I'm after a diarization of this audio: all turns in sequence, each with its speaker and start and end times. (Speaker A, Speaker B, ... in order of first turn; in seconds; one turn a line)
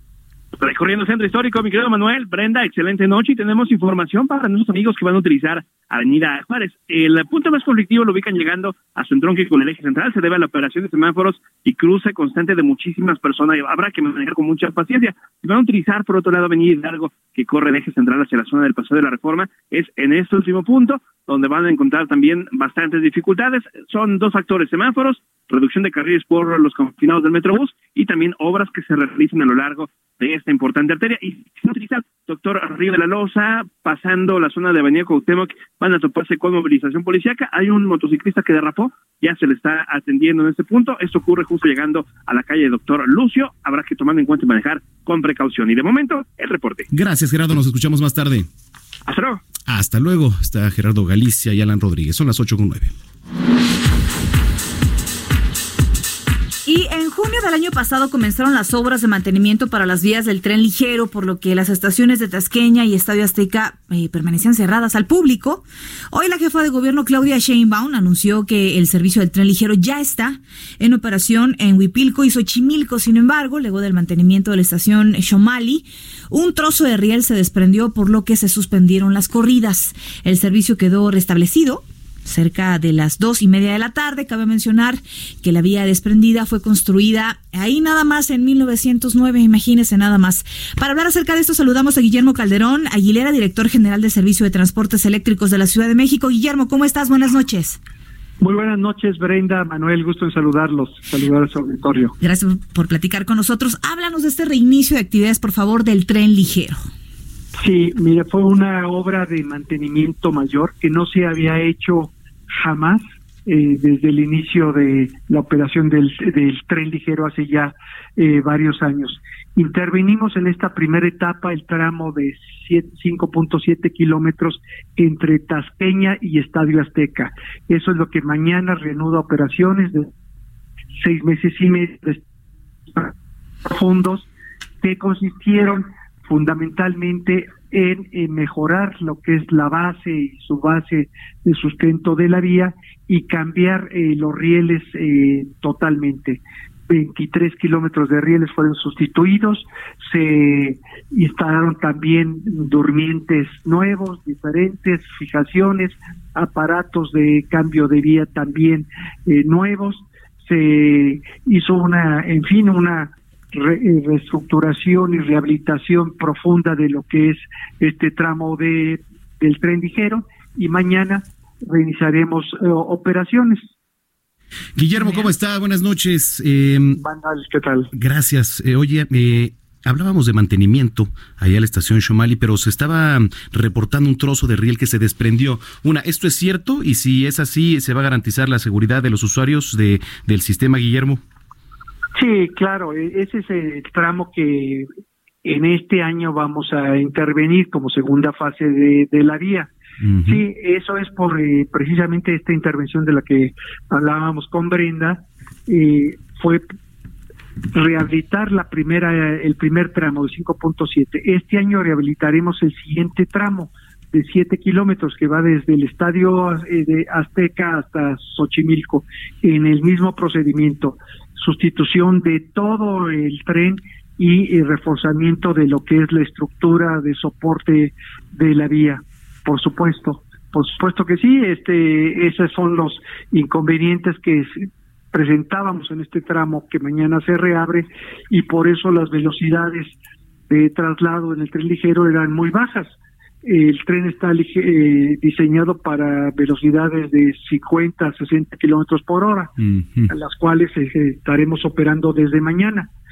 Speaker A: 0.6-46.9
Speaker B: 46.9-48.5
Speaker A: 49.1-49.4
Speaker B: 49.7-52.9
Speaker C: 56.6-97.8
Speaker D: 98.4-102.1
Speaker C: 102.2-106.9
Speaker D: 107.6-130.1
Speaker D: 131.0-132.2
Speaker D: 133.6-134.2
Speaker D: 134.8-173.7
Speaker B: 174.8-177.0
Speaker D: 176.9-177.9
Speaker B: 177.9-191.2
Speaker D: 192.2-194.9
Speaker D: 195.4-199.7
Speaker B: 200.0-200.4
Speaker D: 200.2-206.6
Speaker D: 207.7-239.9
Speaker D: 240.5-249.5
Speaker B: 249.7-250.1
Speaker D: 250.1-252.9